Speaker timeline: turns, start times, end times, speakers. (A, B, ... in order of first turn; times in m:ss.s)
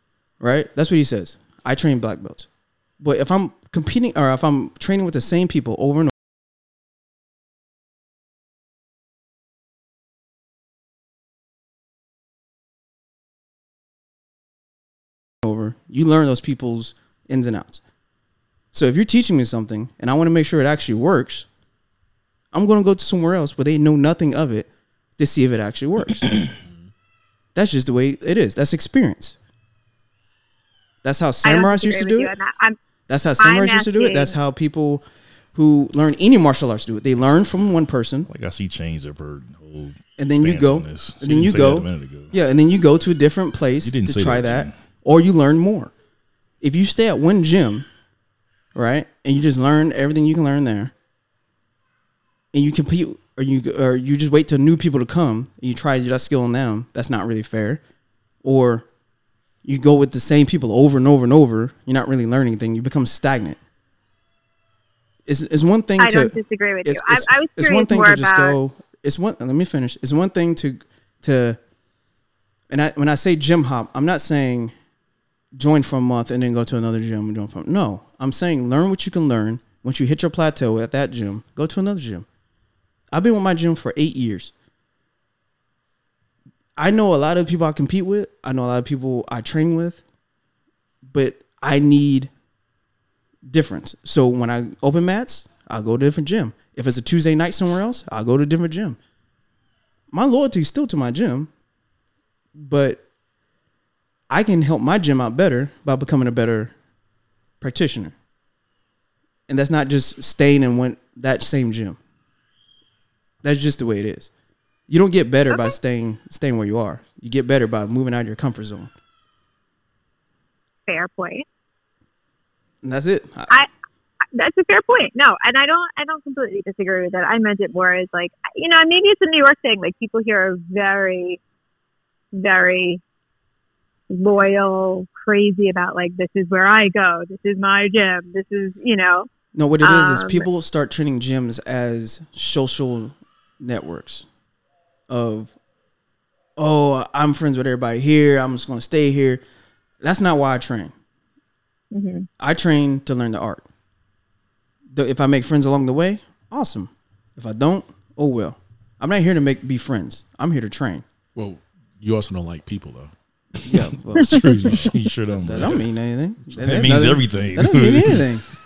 0:00.4-0:02.5 A
0:03.0-0:06.1 A
0:15.4-0:17.8 A
0:18.7-0:21.5 A
0:22.5-0:26.3 A
0:26.6-0:26.9 B
0:27.6-0:29.4 A
0:31.0-0:32.3 A
0:31.4-0:32.8 C
0:33.1-0:35.0 A
0:33.4-0:34.4 C
0:35.5-0:38.3 A
0:38.3-0:42.3 D
0:40.2-0:45.9 A
0:43.8-0:44.7 D
0:46.6-0:47.9 A
0:48.8-0:50.9 A
0:52.5-0:57.8 A
0:58.4-0:58.9 A
0:59.6-1:03.6 A
1:05.3-1:11.6 A
1:06.0-1:08.6 C
1:12.7-1:14.7 A
1:15.6-1:22.2 A
1:23.1-1:24.5 A
1:26.8-1:30.0 A
1:31.1-1:32.3 A
1:33.4-1:39.0 A
1:40.1-1:41.5 A
1:42.6-1:43.0 A
1:44.3-1:46.7 A
1:47.6-1:48.1 A
1:49.5-1:52.0 A
1:53.4-1:54.3 A
1:54.9-1:58.9 A
2:00.9-2:01.4 C
2:02.8-2:03.6 A
2:04.3-2:11.4 C
2:12.3-2:13.0 C
2:14.1-2:19.3 C
2:19.6-2:24.3 A
2:19.8-2:20.5 C
2:25.1-2:25.5 A
2:26.6-2:29.4 A
2:30.0-2:30.9 A
2:31.9-2:32.3 C
2:32.4-2:33.6 A
2:34.9-2:41.0 A
2:41.4-2:43.1 B
2:43.7-2:48.5 A
2:44.2-2:45.9 D
2:45.5-2:45.8 B
2:46.5-2:48.3 D